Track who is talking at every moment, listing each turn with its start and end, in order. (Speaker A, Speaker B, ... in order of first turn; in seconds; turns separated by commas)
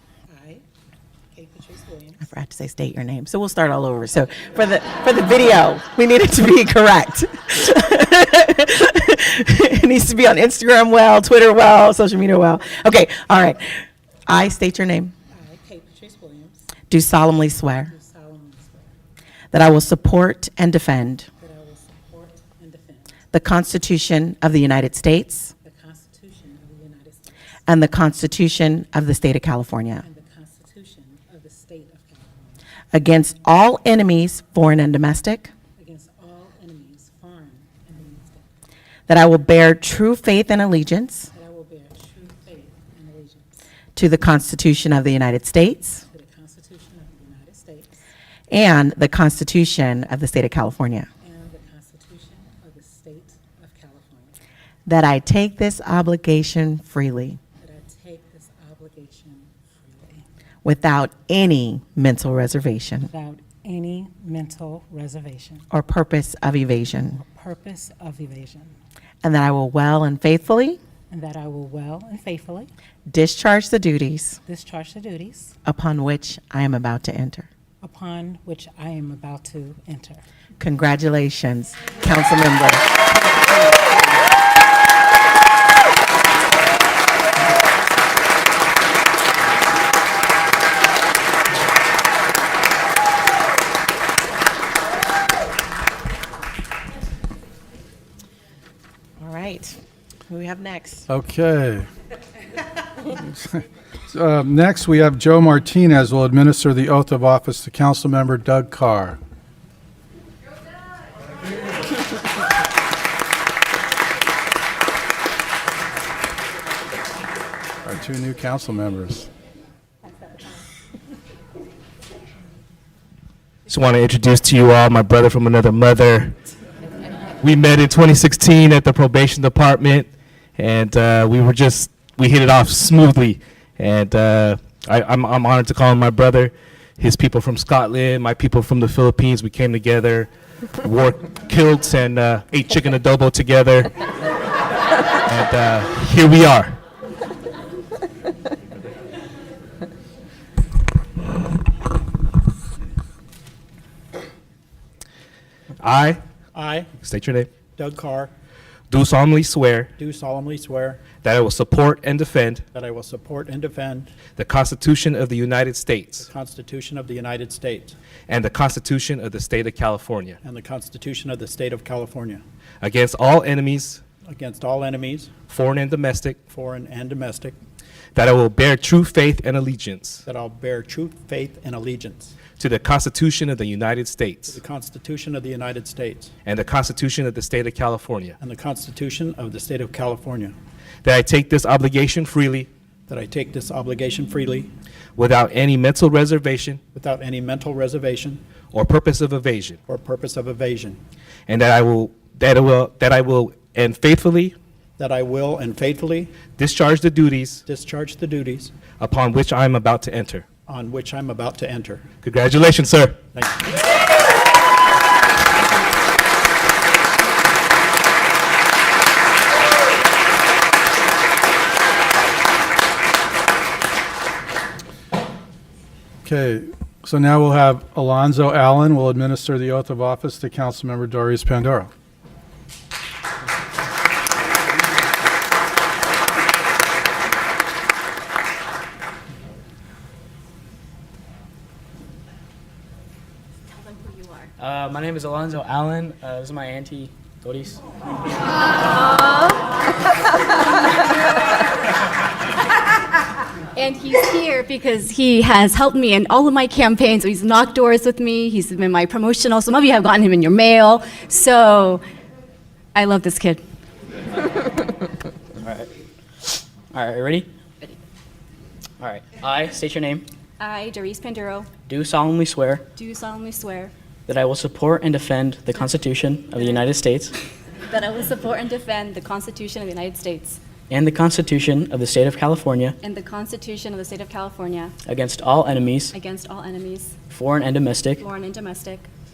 Speaker A: 0.3-0.6, Speaker A: 1.3-2.3, Speaker B: 2.3-15.1, Speaker A: 15.3-16.7, Speaker B: 16.9-17.9, Speaker A: 17.9-19.0, Speaker B: 19.5-21.3, Speaker A: 21.4-23.2, Speaker B: 23.3-25.5, Speaker A: 25.6-27.4, Speaker B: 27.7-30.0, Speaker A: 30.0-32.6, Speaker B: 32.9-35.5, Speaker A: 35.8-38.5, Speaker B: 39.1-41.3, Speaker A: 41.3-43.6, Speaker B: 44.0-46.0, Speaker A: 46.0-48.0, Speaker B: 48.5-51.1, Speaker A: 51.2-54.4, Speaker B: 54.9-57.4, Speaker A: 57.6-60.2, Speaker B: 60.6-63.1, Speaker A: 63.1-65.7, Speaker B: 65.7-67.2, Speaker A: 67.2-68.8, Speaker B: 69.2-70.8, Speaker A: 71.1-72.7, Speaker B: 73.1-74.4, Speaker A: 74.5-75.6, Speaker B: 75.7-77.5, Speaker A: 77.8-80.2, Speaker B: 80.6-83.0, Speaker A: 83.1-84.2, Speaker B: 99.2-101.1, Speaker C: 101.1-101.9, Speaker C: 103.5-109.2, Speaker C: 117.8-119.3, Speaker D: 123.7-126.4, Speaker D: 127.4-140.3, Speaker D: 140.8-143.9, Speaker D: 145.2-146.8, Speaker D: 155.8-156.2, Speaker E: 156.6-156.9, Speaker D: 157.0-157.5, Speaker E: 157.8-158.3, Speaker D: 158.9-159.9, Speaker E: 160.0-161.1, Speaker D: 161.1-162.6, Speaker E: 162.8-164.1, Speaker D: 164.3-166.3, Speaker E: 166.2-168.0, Speaker D: 168.3-170.4, Speaker E: 170.4-172.4, Speaker D: 172.8-174.0, Speaker E: 174.3-175.3, Speaker D: 175.5-176.4, Speaker E: 176.5-177.6, Speaker D: 178.2-180.2, Speaker E: 180.3-182.4, Speaker D: 182.5-184.6, Speaker E: 184.5-186.3, Speaker D: 186.4-188.4, Speaker E: 188.4-190.6, Speaker D: 191.0-192.7, Speaker E: 193.1-194.7, Speaker D: 195.2-196.8, Speaker E: 196.9-198.4, Speaker D: 198.7-199.8, Speaker E: 199.9-201.0, Speaker D: 201.5-204.6, Speaker E: 205.0-206.4, Speaker D: 206.5-207.6, Speaker E: 207.7-208.7, Speaker D: 209.0-210.4, Speaker E: 210.7-212.1, Speaker D: 212.2-213.2, Speaker E: 213.3-213.6, Speaker C: 226.2-231.9, Speaker F: 243.9-244.4, Speaker G: 244.6-247.8, Speaker F: 253.8-262.0, Speaker F: 262.9-263.6, Speaker G: 265.6-265.9, Speaker G: 266.9-267.5, Speaker G: 269.0-270.3, Speaker F: 270.6-271.7, Speaker G: 271.9-272.9, Speaker F: 272.9-273.9, Speaker G: 274.3-277.3, Speaker F: 277.9-280.6, Speaker G: 280.9-283.0, Speaker F: 283.0-284.9, Speaker G: 285.1-286.1, Speaker F: 286.1-287.1, Speaker G: 287.3-288.2, Speaker F: 288.2-289.1